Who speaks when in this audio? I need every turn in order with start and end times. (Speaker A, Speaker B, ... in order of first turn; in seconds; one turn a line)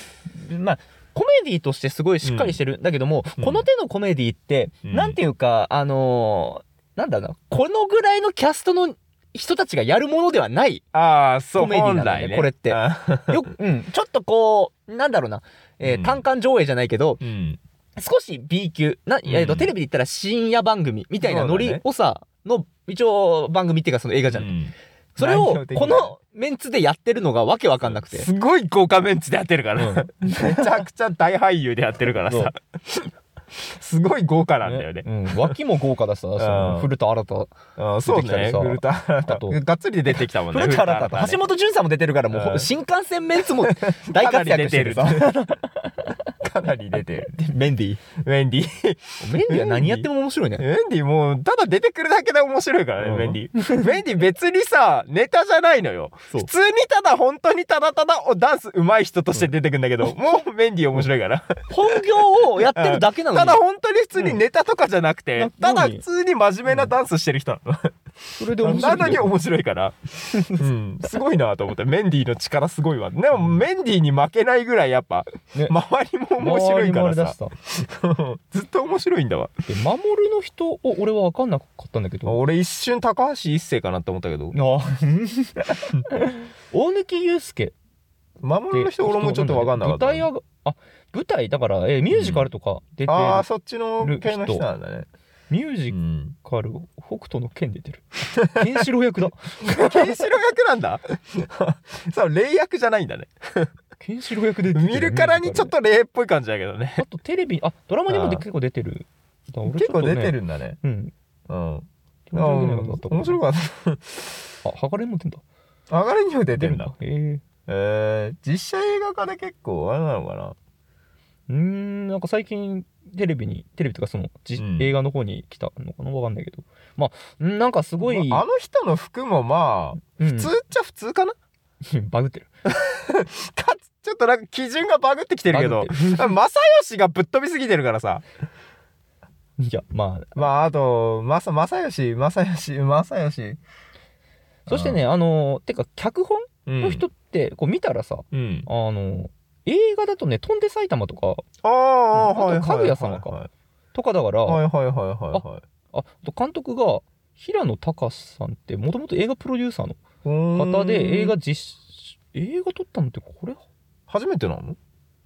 Speaker A: 0.3-10.8
Speaker B: 2.2-2.6
Speaker B: 3.4-3.6
Speaker B: 4.8-5.2
Speaker B: 10.9-13.4
Speaker A: 11.6-17.2
Speaker B: 15.8-16.2
Speaker B: 17.2-17.6
Speaker A: 18.0-24.5
Speaker B: 19.2-19.7
Speaker B: 21.2-21.8
Speaker B: 24.3-26.1
Speaker A: 25.2-28.3
Speaker B: 27.9-35.5
Speaker A: 29.8-30.8
Speaker A: 32.3-32.5
Speaker A: 34.6-39.6
Speaker B: 36.4-36.9
Speaker B: 37.8-41.4
Speaker A: 40.1-46.2
Speaker B: 42.3-42.7
Speaker B: 43.5-45.4
Speaker B: 46.4-47.3
Speaker A: 47.2-48.0
Speaker B: 48.2-67.9
Speaker A: 49.2-50.6
Speaker A: 53.0-53.9
Speaker A: 61.7-63.6
Speaker A: 65.3-66.0
Speaker A: 68.4-69.3
Speaker B: 68.6-70.0
Speaker A: 70.3-70.6
Speaker B: 70.5-79.5
Speaker A: 76.4-77.5
Speaker A: 79.7-82.4
Speaker B: 82.2-84.5
Speaker A: 84.5-87.7
Speaker B: 88.4-90.3
Speaker A: 88.7-93.5
Speaker B: 92.1-92.5
Speaker B: 93.1-95.1
Speaker A: 94.0-94.6
Speaker A: 95.5-100.2
Speaker B: 95.9-96.3
Speaker B: 99.6-103.7
Speaker A: 104.0-105.7
Speaker B: 104.7-107.0
Speaker A: 107.0-111.1
Speaker B: 108.1-108.4
Speaker B: 109.7-110.8
Speaker B: 111.5-114.2
Speaker A: 112.3-113.4
Speaker A: 114.6-115.4
Speaker B: 115.9-116.9
Speaker A: 116.6-117.4
Speaker B: 117.7-120.5
Speaker A: 121.5-128.4
Speaker B: 124.6-124.9
Speaker B: 128.0-131.3
Speaker A: 130.2-130.5
Speaker A: 131.8-132.5
Speaker B: 132.6-138.2
Speaker A: 135.5-136.3
Speaker A: 139.6-140.4
Speaker B: 140.3-143.6
Speaker A: 144.7-151.4
Speaker B: 144.7-145.0
Speaker B: 146.7-147.0
Speaker B: 148.3-148.7
Speaker B: 151.6-153.5
Speaker A: 152.1-153.4
Speaker A: 153.9-154.6
Speaker B: 154.4-155.6
Speaker A: 155.3-160.0
Speaker B: 160.2-161.3
Speaker A: 160.5-163.6
Speaker B: 164.1-164.8